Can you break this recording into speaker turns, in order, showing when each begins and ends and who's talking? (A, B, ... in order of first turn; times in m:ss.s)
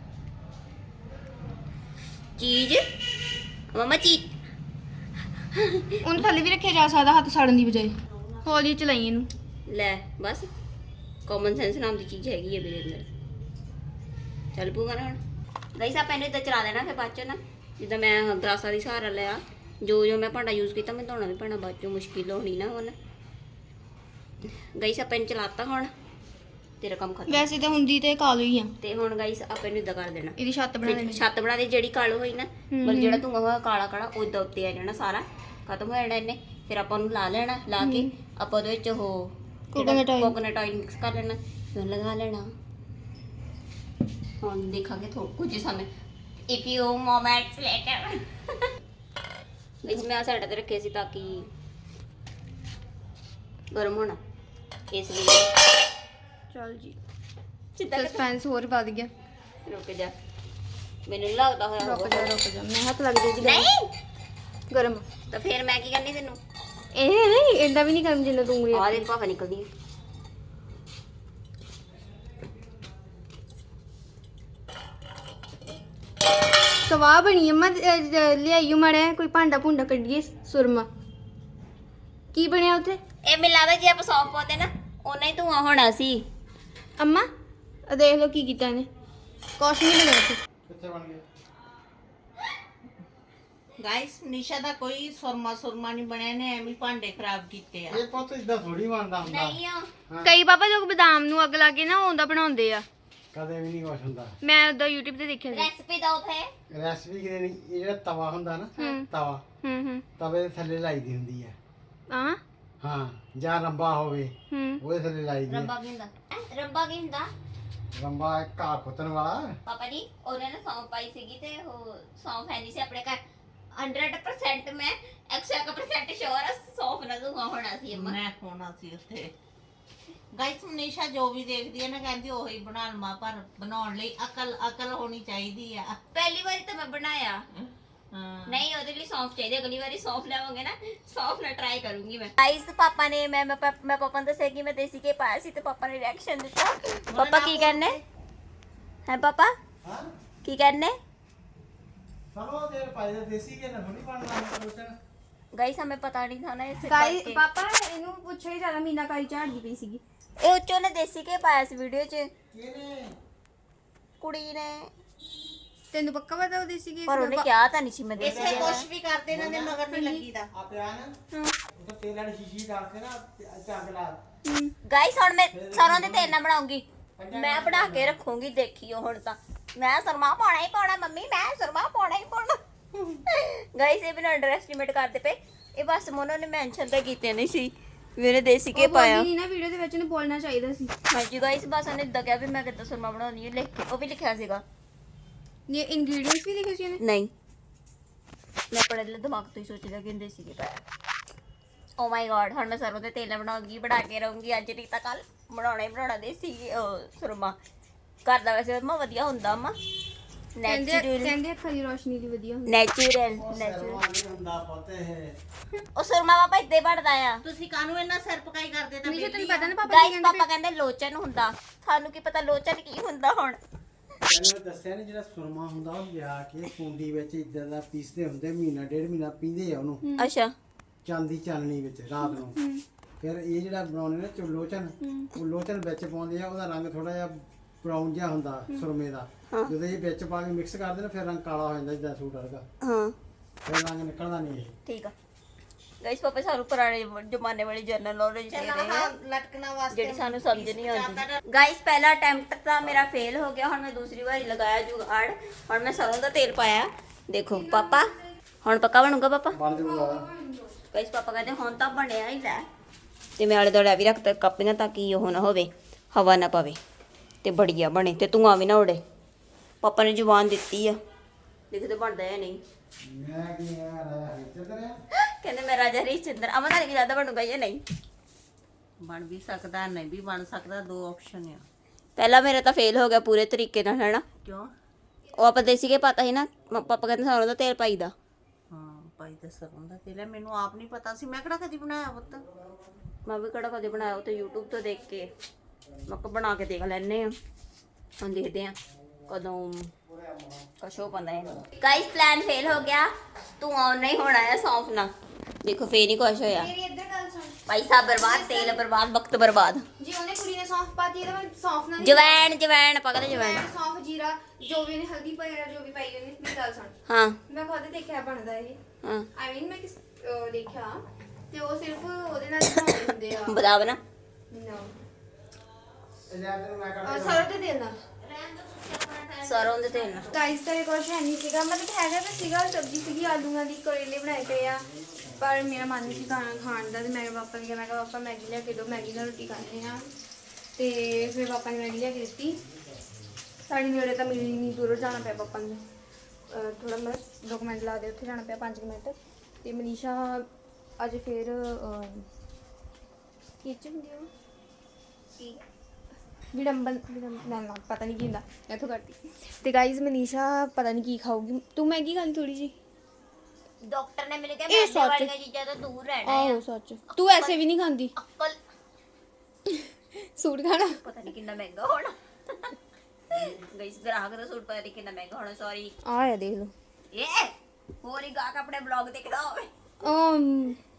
0:02.4-0:02.8 A
0:03.7-0:04.3 A
0:05.5-0:05.9 A
0:06.0-0:09.3 B
0:08.1-0:08.4 C
0:09.7-0:10.5 A
0:11.3-0:13.1 A
0:14.5-0:15.2 A
0:15.8-0:22.9 A
0:24.8-0:25.9 A
0:26.8-0:27.5 A
0:27.3-0:28.7 B
0:28.8-0:42.5 A
0:30.4-0:31.2 B
0:32.7-0:33.2 B
0:37.8-0:38.1 B
0:39.7-0:40.3 B
0:44.4-0:45.9 A
0:46.5-0:48.3 A
0:49.8-0:51.5 A
0:53.7-0:54.2 A
0:54.9-0:55.5 A
0:56.5-0:57.0 B
0:57.8-0:58.2 A
0:57.9-0:59.1 B
0:59.6-1:00.1 A
1:01.1-1:02.3 A
1:01.8-1:03.7 B
1:03.4-1:03.9 A
1:04.7-1:05.0 B
1:05.3-1:06.4 A
1:06.9-1:09.0 B
1:08.7-1:09.7 A
1:16.8-1:20.9 B
1:22.3-1:23.0 B
1:23.2-1:26.2 A
1:27.0-1:27.2 B
1:27.9-1:28.9 B
1:29.6-1:30.4 B
1:30.7-1:31.2 D
1:33.8-1:38.0 C
1:37.9-1:40.3 D
1:39.2-1:39.9 A
1:40.2-1:42.8 B
1:43.3-1:44.3 D
1:44.4-1:45.7 B
1:45.5-1:46.5 A
1:46.7-1:49.4 D
1:48.8-1:49.1 B
1:49.6-1:50.0 B
1:50.2-1:51.5 D
1:52.1-1:52.4 B
1:52.8-1:55.7 D
1:54.5-1:54.8 B
1:55.5-1:57.3 A
1:57.9-1:59.5 D
1:59.6-2:03.2 A
2:03.7-2:08.2 A
2:07.9-2:09.3 C
2:10.3-2:16.0 C
2:16.1-2:17.4 A
2:17.5-2:18.6 C
2:18.4-2:28.0 A
2:27.1-2:28.0 C
2:29.1-2:29.5 A
2:29.8-2:30.1 D
2:30.4-2:31.0 A
2:32.3-2:34.9 D
2:35.5-2:37.4 A
2:36.8-2:40.0 B
2:40.4-2:42.3 A
2:42.5-2:43.1 D
2:44.2-2:44.9 A
2:45.9-2:47.5 B
2:47.1-2:48.8 A
2:48.2-2:49.8 D
2:48.2-2:50.5 C
2:49.9-2:50.2 B
2:50.5-2:51.2 D
2:51.7-2:54.2 D
2:54.4-2:54.7 B
2:54.9-3:02.6 A
2:55.5-2:56.4 D
2:57.2-2:58.2 D
3:03.3-3:09.3 A
3:08.7-3:10.9 B
3:11.1-3:14.6 A
3:15.7-3:17.0 B
3:17.0-3:17.3 A
3:18.7-3:20.8 A
3:22.0-3:27.6 A
3:28.2-3:29.8 A
3:30.6-3:31.4 A
3:30.6-3:32.8 B
3:32.7-3:34.0 A
3:33.4-3:35.4 D
3:36.0-3:37.4 A
3:37.4-3:39.7 C
3:39.0-3:40.4 B
3:39.8-3:43.6 A
3:44.3-3:50.0 D
3:50.0-3:50.3 B
3:50.2-3:50.5 A
3:51.0-3:52.6 D
3:52.2-3:52.8 B
3:53.2-4:02.6 D
3:55.0-3:55.3 B
4:02.8-4:03.1 A
4:03.6-4:04.7 D
4:04.8-4:05.1 A
4:06.0-4:09.1 A
4:08.5-4:11.4 C
4:09.9-4:19.6 A
4:17.6-4:18.2 B
4:19.5-4:20.3 D
4:19.8-4:20.8 B
4:20.9-4:22.6 A
4:23.4-4:26.8 A
4:27.4-4:29.0 A
4:29.8-4:31.0 A
4:31.7-4:32.6 A
4:33.0-4:35.0 D
4:35.4-4:37.8 A
4:39.0-4:41.6 C
4:42.2-4:44.2 A
4:44.4-4:44.7 C
4:45.4-4:48.1 A
4:48.7-4:52.4 C
4:53.2-4:55.3 A
4:56.1-4:57.3 A
4:58.2-4:58.7 A
4:59.3-4:59.9 A
5:00.1-5:00.5 D
5:00.8-5:05.1 A
5:01.3-5:01.6 D
5:05.6-5:06.7 A
5:06.5-5:07.6 B
5:07.7-5:09.8 A
5:08.1-5:08.8 B
5:10.0-5:12.4 B
5:12.0-5:13.7 A
5:13.3-5:16.9 B
5:17.1-5:17.4 A
5:17.5-5:18.8 B
5:19.4-5:23.6 B
5:23.4-5:24.0 A
5:24.5-5:24.9 B
5:26.3-5:27.5 D
5:27.0-5:28.0 B
5:28.2-5:30.4 C
5:29.4-5:30.3 A
5:30.3-5:34.9 B
5:34.6-5:36.6 D
5:35.4-5:40.0 B
5:40.8-5:42.6 B
5:43.7-5:45.8 B
5:44.4-5:45.4 D
5:46.5-5:50.4 B
5:51.0-5:52.3 B
5:53.6-5:54.3 B
5:56.5-6:02.7 B
6:03.8-6:07.6 A
6:04.7-6:05.3 B
6:06.2-6:08.1 B
6:08.2-6:08.6 A
6:09.7-6:11.0 B
6:10.9-6:12.7 A
6:13.3-6:15.9 A
6:16.0-6:16.7 B
6:17.1-6:19.7 A
6:20.0-6:20.8 B